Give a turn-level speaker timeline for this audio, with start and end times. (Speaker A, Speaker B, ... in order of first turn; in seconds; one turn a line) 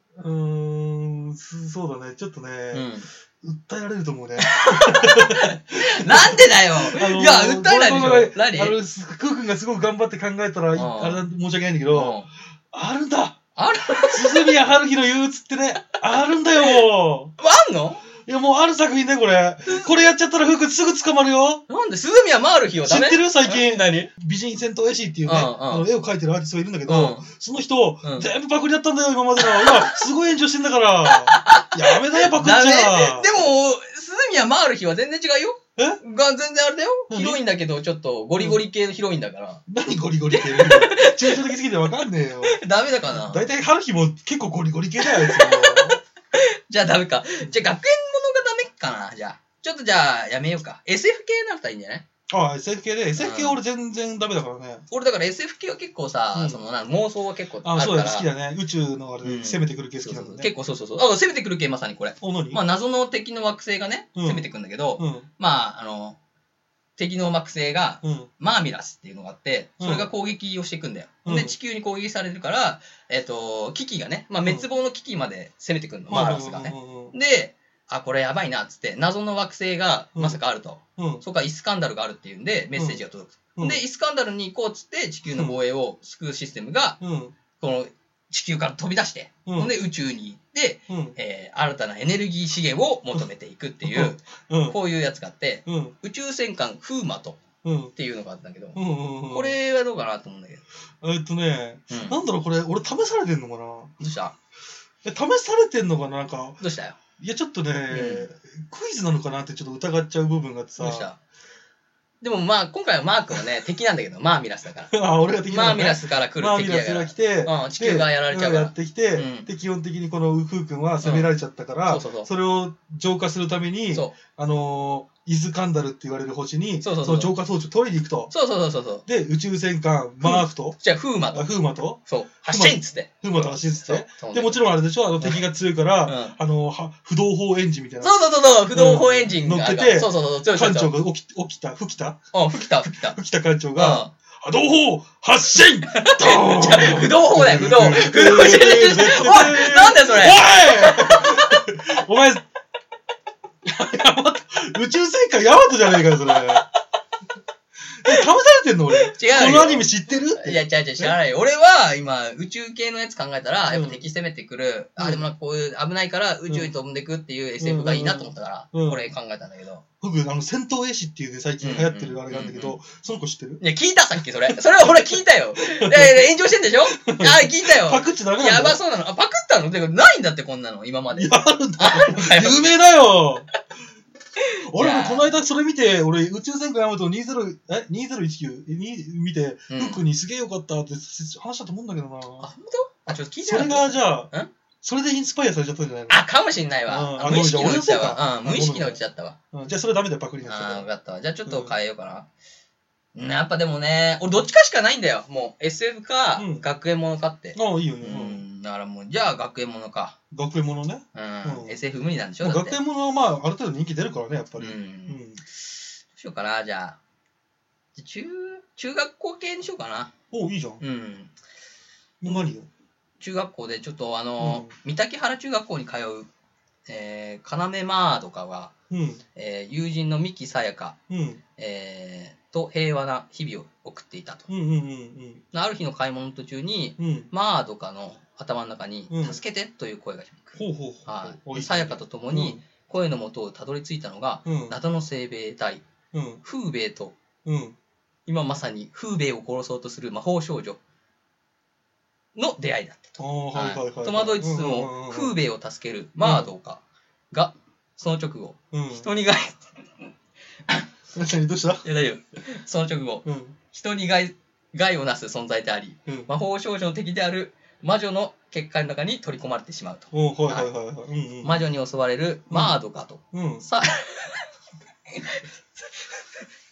Speaker A: 0.1-17.3
Speaker B: 2.7-3.1
Speaker B: 4.4-8.8
Speaker B: 10.7-11.2
Speaker B: 11.9-12.3
Speaker B: 13.6-14.6
Speaker B: 17.4-18.0
Speaker A: 18.2-21.6
Speaker B: 21.7-24.1
Speaker A: 22.9-33.3
Speaker B: 25.2-25.9
Speaker B: 26.9-27.2
Speaker B: 28.0-28.3
Speaker B: 29.4-30.0
Speaker B: 31.0-39.6
Speaker A: 37.1-37.4
Speaker A: 38.4-38.6
Speaker A: 39.7-42.6
Speaker B: 40.3-41.5
Speaker B: 42.5-43.4
Speaker A: 43.1-46.0
Speaker B: 45.0-52.0
Speaker A: 52.3-54.9
Speaker B: 53.2-53.6
Speaker B: 54.9-58.3
Speaker A: 56.3-56.6
Speaker A: 57.6-60.5
Speaker B: 59.2-66.2
Speaker A: 62.2-62.6
Speaker A: 64.2-65.3
Speaker B: 67.0-87.0
Speaker A: 68.0-68.3
Speaker A: 69.8-70.1
Speaker A: 71.2-71.5
Speaker A: 76.1-77.1
Speaker A: 81.0-81.2
Speaker A: 82.8-83.0
Speaker A: 83.5-83.8
Speaker A: 85.2-85.6
Speaker A: 87.0-87.3
Speaker B: 87.6-97.4
Speaker A: 89.5-89.8
Speaker A: 90.9-91.2
Speaker A: 93.8-94.8
Speaker A: 95.7-95.9
Speaker A: 97.6-97.9
Speaker B: 97.9-100.6
Speaker A: 98.8-99.6
Speaker A: 101.0-103.9
Speaker B: 101.9-102.2
Speaker B: 104.0-104.3
Speaker A: 105.0-106.6
Speaker B: 106.6-107.0
Speaker A: 107.2-111.1
Speaker B: 107.9-108.3
Speaker B: 110.8-111.2
Speaker B: 112.2-114.9
Speaker A: 114.9-128.3
Speaker B: 115.5-119.5
Speaker B: 121.0-121.3
Speaker B: 121.9-122.3
Speaker B: 126.8-127.3
Speaker B: 128.3-129.0
Speaker A: 129.1-130.8
Speaker B: 130.2-131.5
Speaker A: 131.3-152.4
Speaker B: 132.1-135.4
Speaker B: 136.0-136.4
Speaker B: 138.0-140.9
Speaker B: 142.3-143.2
Speaker B: 143.8-144.1
Speaker B: 145.9-151.6
Speaker A: 153.7-156.6
Speaker A: 158.0-161.2
Speaker B: 159.1-169.8
Speaker A: 163.7-164.0
Speaker A: 165.0-165.2
Speaker A: 167.6-169.1
Speaker A: 170.0-173.6
Speaker B: 171.6-172.8
Speaker B: 173.6-182.7
Speaker A: 174.5-176.3
Speaker A: 176.9-178.8
Speaker A: 181.1-183.5
Speaker A: 184.7-192.5
Speaker B: 184.8-185.3
Speaker B: 189.7-190.0
Speaker B: 192.4-194.5
Speaker A: 193.1-194.3
Speaker A: 194.8-196.2
Speaker B: 196.1-199.4
Speaker A: 196.9-199.0
Speaker A: 199.5-200.9
Speaker B: 200.4-202.3
Speaker A: 201.5-201.7
Speaker B: 203.1-210.2
Speaker A: 206.4-206.6
Speaker A: 207.5-208.4
Speaker A: 210.3-211.8
Speaker B: 211.1-212.8
Speaker A: 212.4-215.4
Speaker B: 214.6-215.2
Speaker B: 216.1-217.0
Speaker B: 218.0-220.1
Speaker A: 220.3-220.8
Speaker B: 220.8-221.3
Speaker A: 222.2-222.7
Speaker B: 223.2-226.3
Speaker A: 224.4-224.7
Speaker B: 226.9-228.7
Speaker A: 228.9-229.2
Speaker B: 229.3-231.0
Speaker A: 231.1-231.4
Speaker B: 231.6-234.5
Speaker A: 234.5-235.4
Speaker B: 235.5-245.8
Speaker A: 237.0-237.3
Speaker A: 239.1-239.4
Speaker A: 240.6-242.6
Speaker A: 244.5-244.8
Speaker A: 246.1-246.4
Speaker B: 246.4-247.2
Speaker A: 247.4-247.8
Speaker B: 248.3-250.8
Speaker B: 252.3-259.6
Speaker A: 253.2-255.3
Speaker A: 256.2-256.5
Speaker A: 258.7-259.1
Speaker A: 261.1-261.9
Speaker B: 261.8-270.7
Speaker A: 263.2-263.6
Speaker A: 266.1-266.3
Speaker A: 270.1-271.6
Speaker B: 271.4-274.4
Speaker A: 272.5-272.8
Speaker A: 273.3-273.6
Speaker B: 275.1-275.4